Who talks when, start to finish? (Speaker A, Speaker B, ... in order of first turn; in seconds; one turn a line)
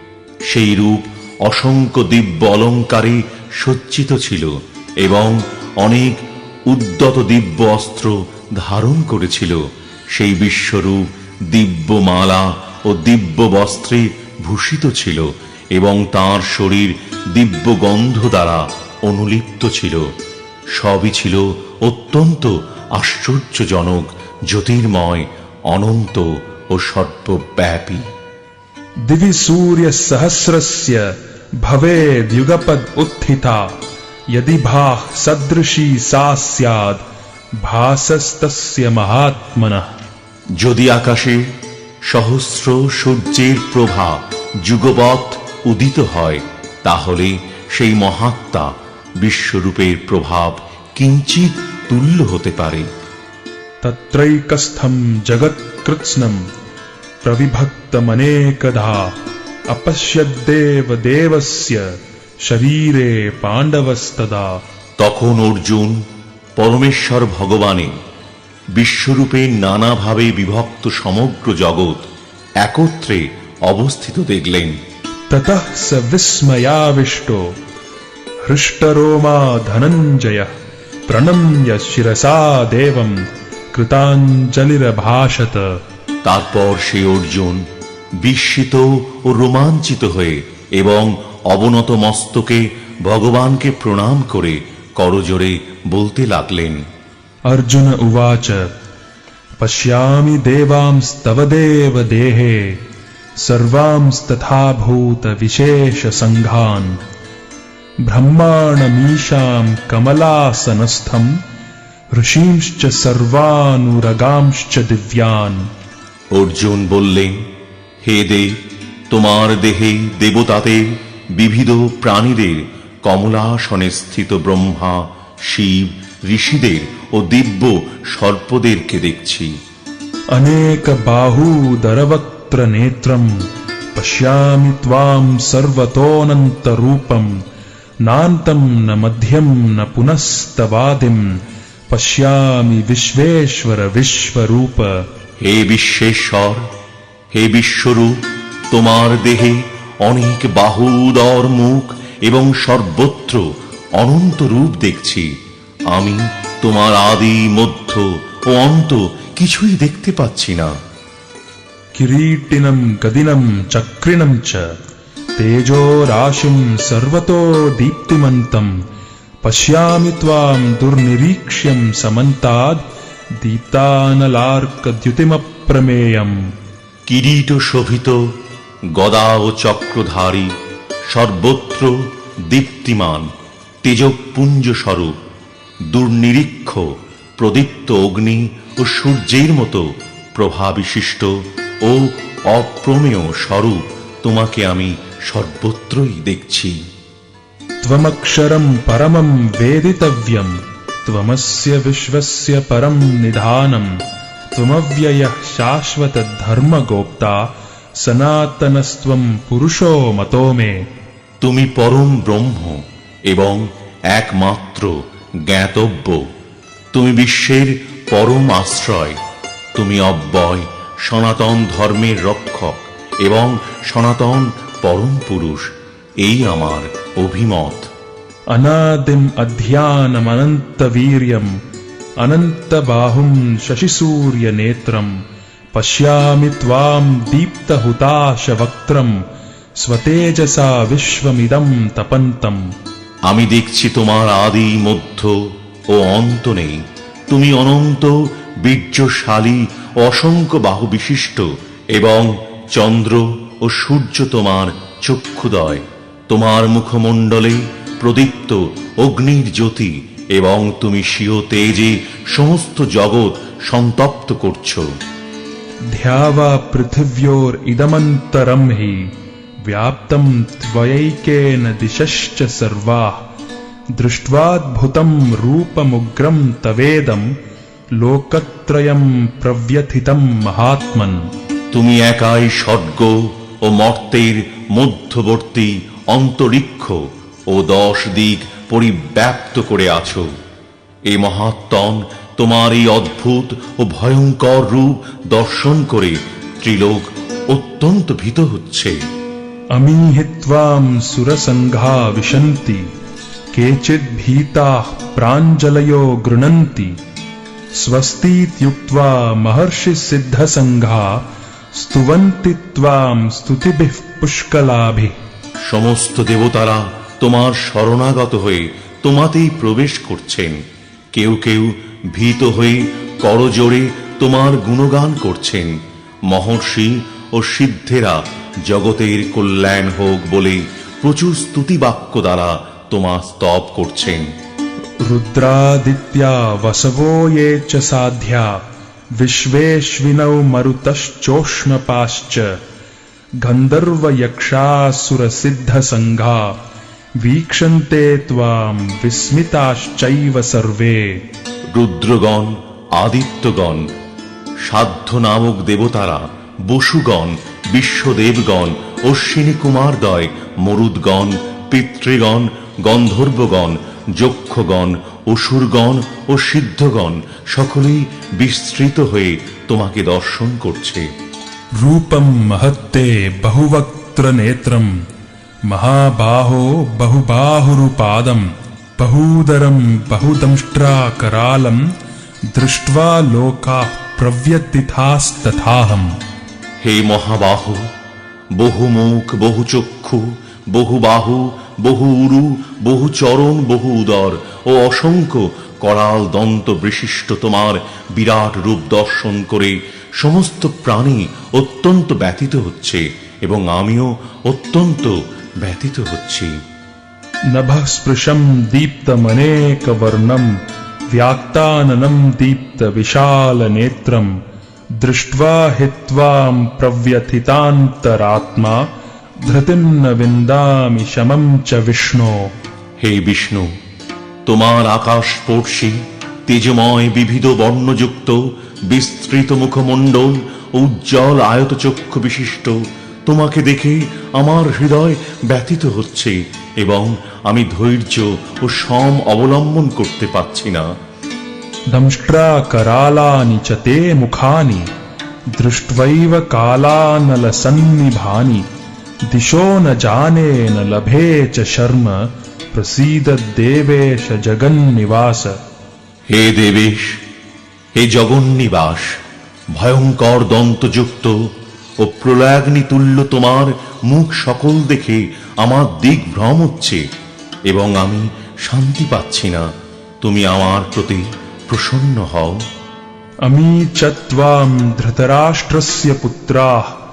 Speaker A: 0.5-20.1
Speaker A: 20.7-28.1
Speaker B: 29.1-31.0
Speaker B: 31.6-33.7
Speaker B: 34.3-37.0
Speaker B: 37.6-39.9
Speaker A: 40.6-41.5
Speaker A: 42.0-52.9
Speaker B: 53.8-56.4
Speaker B: 57.2-59.1
Speaker B: 59.7-61.8
Speaker B: 62.4-64.6
Speaker A: 65.0-66.0
Speaker A: 66.6-67.9
Speaker A: 68.8-72.1
Speaker A: 72.6-74.8
Speaker B: 75.3-77.4
Speaker B: 78.5-80.5
Speaker B: 81.1-83.2
Speaker B: 83.7-85.6
Speaker A: 86.2-87.7
Speaker A: 88.2-96.8
Speaker B: 97.5-98.7
Speaker B: 99.6-102.8
Speaker B: 103.4-107.0
Speaker B: 108.0-111.4
Speaker B: 112.1-115.7
Speaker A: 116.3-117.4
Speaker A: 118.0-118.6
Speaker A: 119.1-129.6
Speaker B: 130.3-137.3
Speaker B: 138.0-141.3
Speaker B: 141.9-145.0
Speaker A: 145.4-146.7
Speaker A: 147.3-155.3
Speaker A: 155.9-160.7
Speaker B: 162.0-164.6
Speaker B: 165.4-168.7
Speaker B: 169.4-172.8
Speaker B: 173.3-176.4
Speaker A: 177.1-178.2
Speaker A: 178.9-180.5
Speaker A: 181.1-183.3
Speaker A: 183.8-185.1
Speaker A: 185.8-196.8
Speaker B: 197.8-204.0
Speaker B: 204.5-207.5
Speaker B: 208.0-210.8
Speaker A: 211.4-216.3
Speaker A: 216.9-219.2
Speaker A: 219.7-227.9
Speaker B: 228.5-231.6
Speaker B: 232.2-235.1
Speaker B: 235.7-239.2
Speaker B: 239.8-242.6
Speaker A: 243.3-245.4
Speaker A: 245.9-264.9
Speaker B: 265.9-269.1
Speaker B: 269.6-273.2
Speaker B: 274.0-277.3
Speaker B: 278.0-281.3
Speaker A: 281.7-290.3
Speaker A: 291.1-298.9
Speaker B: 299.7-302.9
Speaker B: 303.5-307.0
Speaker B: 307.8-311.2
Speaker B: 311.7-315.1
Speaker A: 315.6-325.8
Speaker A: 326.3-334.3
Speaker B: 335.0-338.6
Speaker B: 339.2-342.5
Speaker B: 343.4-346.6
Speaker B: 347.2-351.2
Speaker A: 351.7-353.9
Speaker A: 354.6-371.1
Speaker B: 371.8-375.0
Speaker B: 375.7-381.8
Speaker B: 382.5-386.2
Speaker A: 386.8-387.9
Speaker A: 388.6-406.5
Speaker B: 407.5-410.5
Speaker B: 411.1-414.3
Speaker B: 415.0-418.9
Speaker B: 419.4-422.5
Speaker A: 423.0-423.7
Speaker A: 424.4-432.8
Speaker A: 433.3-440.9
Speaker B: 441.9-444.9
Speaker B: 445.6-448.6
Speaker B: 449.3-452.2
Speaker B: 452.7-455.6
Speaker A: 456.3-457.2
Speaker A: 457.9-459.2
Speaker A: 459.7-461.4
Speaker A: 462.0-467.0
Speaker A: 467.7-469.7
Speaker A: 470.2-472.6
Speaker B: 473.4-476.9